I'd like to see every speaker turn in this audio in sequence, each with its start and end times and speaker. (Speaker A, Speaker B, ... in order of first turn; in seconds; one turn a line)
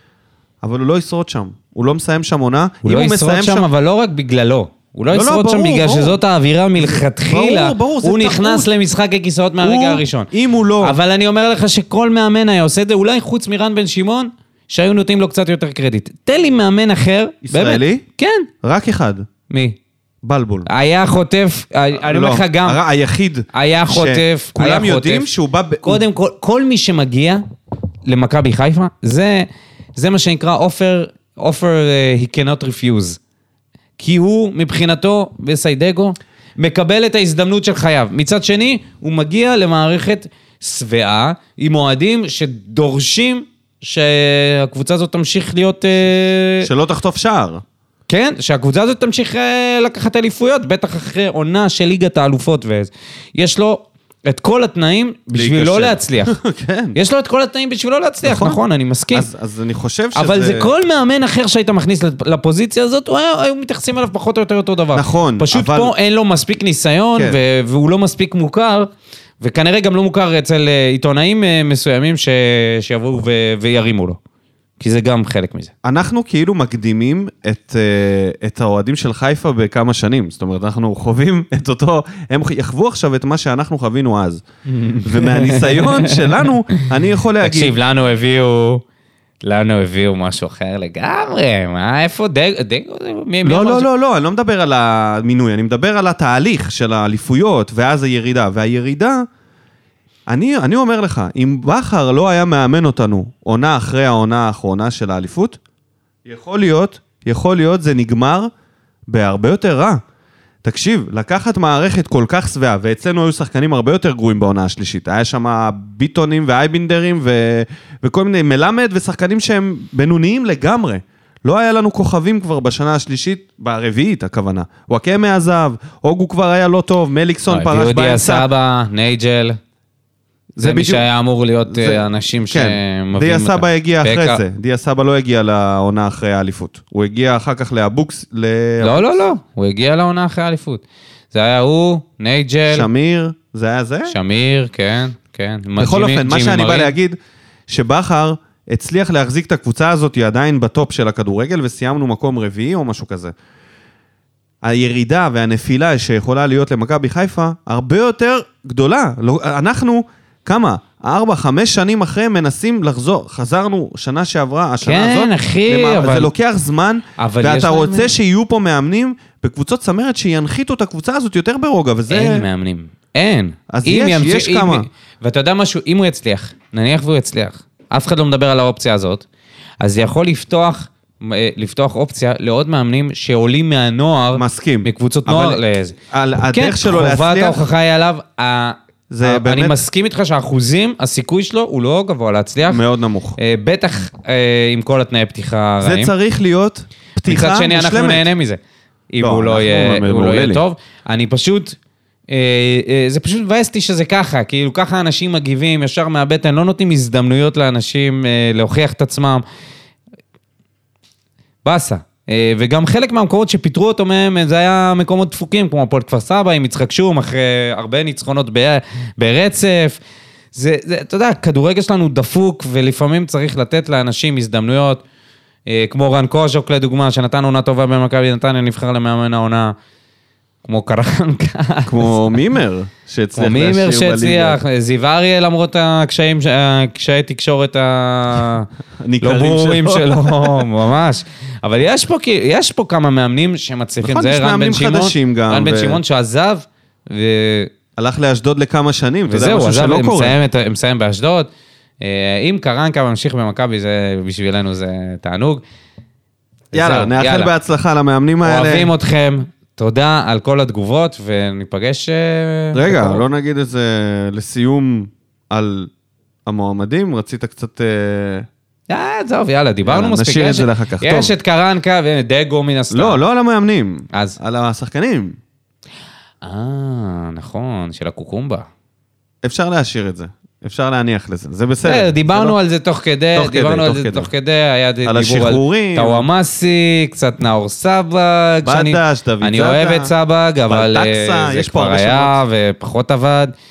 Speaker A: 0.6-3.7
Speaker B: 2.8-10.3
Speaker A: 5.1-6.2
Speaker A: 6.8-8.7
Speaker A: 9.6-11.0
Speaker B: 10.8-18.5
Speaker A: 17.5-18.0
Speaker A: 18.6-19.2
Speaker B: 19.5-19.8
Speaker A: 20.2-20.7
Speaker B: 20.7-22.8
Speaker A: 22.0-26.0
Speaker B: 23.5-25.3
Speaker B: 25.8-27.4
Speaker B: 28.1-33.2
Speaker B: 34.0-46.7
Speaker A: 46.6-47.6
Speaker B: 48.1-56.4
Speaker A: 55.3-57.0
Speaker B: 57.0-59.3
Speaker A: 58.2-58.6
Speaker A: 59.1-60.7
Speaker B: 60.1-68.9
Speaker A: 64.9-65.9
Speaker B: 69.4-74.2
Speaker B: 74.8-75.7
Speaker A: 75.8-87.8
Speaker B: 84.8-86.8
Speaker B: 87.4-88.8
Speaker B: 89.4-93.9
Speaker A: 93.5-99.3
Speaker A: 100.3-105.6
Speaker A: 106.2-108.5
Speaker A: 109.1-110.0
Speaker A: 110.6-128.5
Speaker B: 127.5-129.6
Speaker A: 130.6-131.1
Speaker B: 130.6-134.4
Speaker A: 131.7-139.2
Speaker B: 138.8-142.9
Speaker A: 142.7-144.2
Speaker B: 144.1-146.9
Speaker A: 145.8-147.2
Speaker A: 147.7-153.3
Speaker A: 154.6-172.4
Speaker B: 164.8-166.3
Speaker B: 167.2-168.1
Speaker B: 172.1-179.3
Speaker A: 173.7-174.9
Speaker B: 179.8-186.0
Speaker A: 184.3-187.7
Speaker B: 186.5-192.8
Speaker A: 189.1-189.8
Speaker A: 192.7-193.4
Speaker B: 193.4-196.1
Speaker A: 195.8-198.3
Speaker B: 197.2-198.6
Speaker B: 199.1-201.8
Speaker A: 199.2-200.6
Speaker B: 202.3-209.4
Speaker B: 211.6-220.0
Speaker B: 220.5-225.0
Speaker B: 225.7-229.7
Speaker B: 230.6-232.4
Speaker A: 231.9-234.6
Speaker B: 233.4-238.7
Speaker A: 239.0-240.7
Speaker B: 239.2-247.7
Speaker A: 244.0-246.0
Speaker A: 248.0-250.4
Speaker B: 249.3-251.5
Speaker B: 252.0-255.6
Speaker B: 256.7-257.5
Speaker A: 256.7-258.9
Speaker B: 258.4-263.2
Speaker A: 262.7-265.9
Speaker A: 266.5-268.5
Speaker B: 268.9-273.2
Speaker A: 269.9-271.3
Speaker A: 272.9-275.4
Speaker B: 274.1-274.4
Speaker B: 276.4-278.7
Speaker A: 279.4-282.6
Speaker B: 281.9-293.5
Speaker A: 283.4-284.3
Speaker A: 285.1-286.3
Speaker A: 288.7-290.1
Speaker A: 290.7-292.4